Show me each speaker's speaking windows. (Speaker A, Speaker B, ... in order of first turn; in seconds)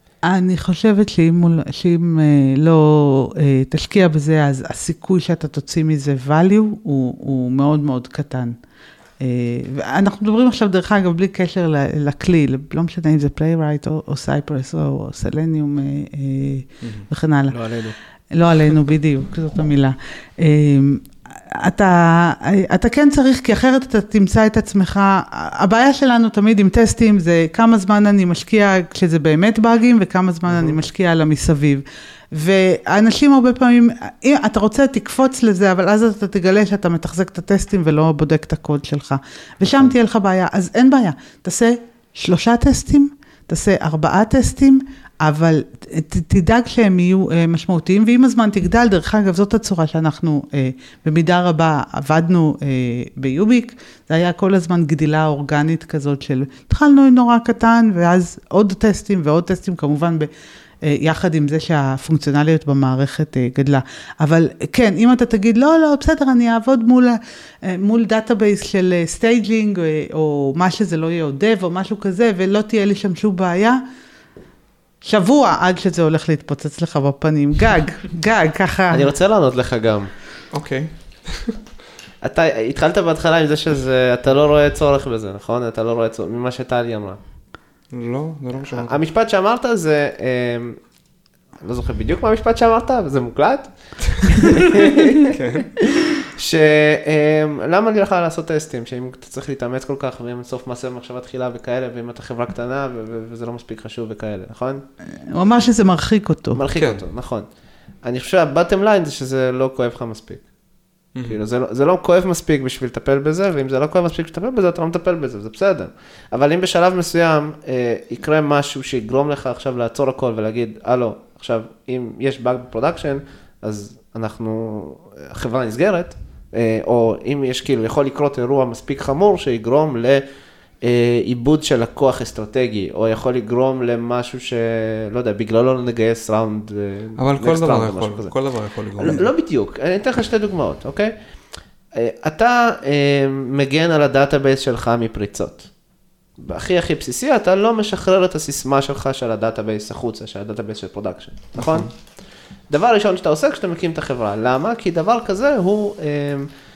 Speaker A: 0.2-8.6, 9.2-17.6, 18.3-60.3, 60.8-73.8, 75.0-79.1, 105.3-106.6
Speaker B: 17.5-17.9, 30.5-30.8, 78.9-80.1, 82.2-87.2, 88.6-90.8, 91.6-104.8, 106.5-107.5, 108.0-110.5, 111.2-130.2, 130.8-141.1, 141.9-145.7, 146.4-156.5
Speaker C: 80.5-81.6, 87.9-89.0, 94.4-95.7, 106.7-107.0, 137.2-139.3, 151.6-151.9